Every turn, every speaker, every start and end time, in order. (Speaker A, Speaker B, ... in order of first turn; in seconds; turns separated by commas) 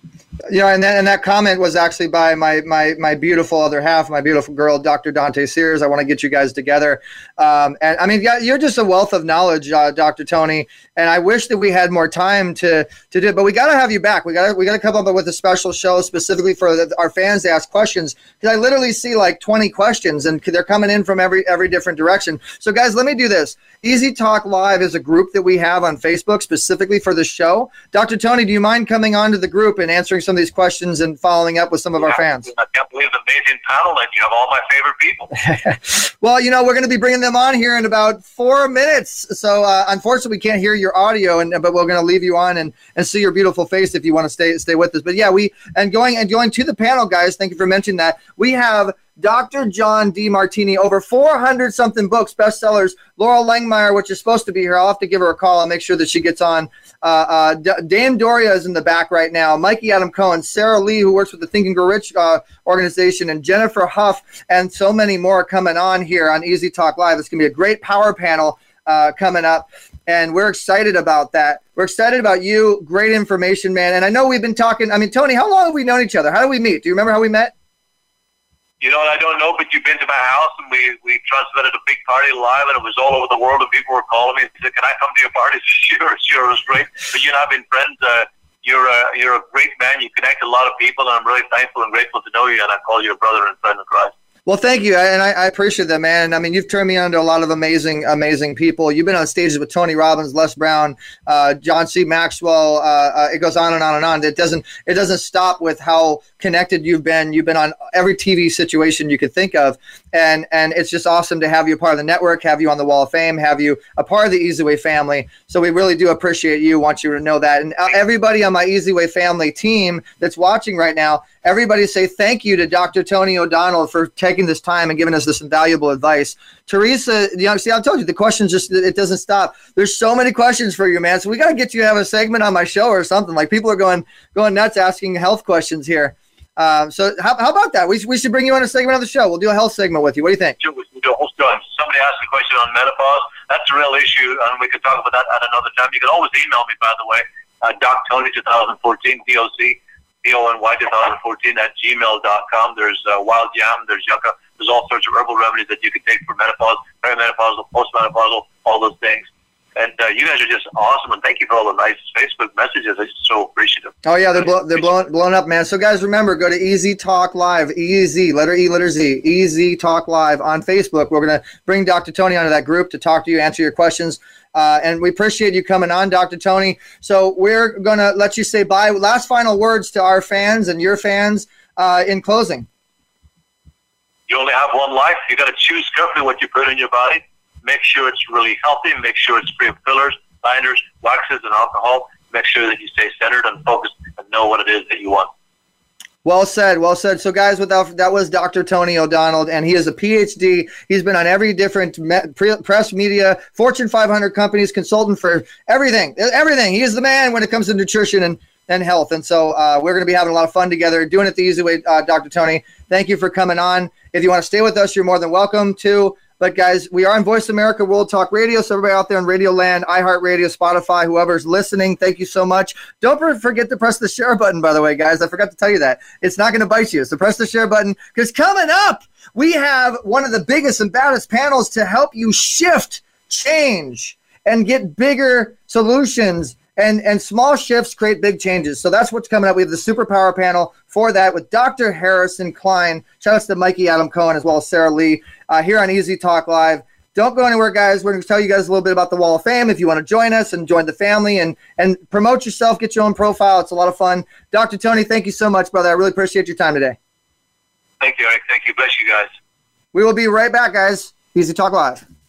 Speaker A: 0.5-32.5, Speaker B: 32.0-35.3, Speaker A: 35.4-77.5, Speaker B: 78.8-94.1, Speaker A: 94.5-140.6, Speaker B: 140.6-164.9, Speaker A: 164.0-182.7, Speaker B: 184.3-195.3, Speaker A: 196.2-257.0, Speaker B: 258.0-259.3, Speaker A: 259.9-262.0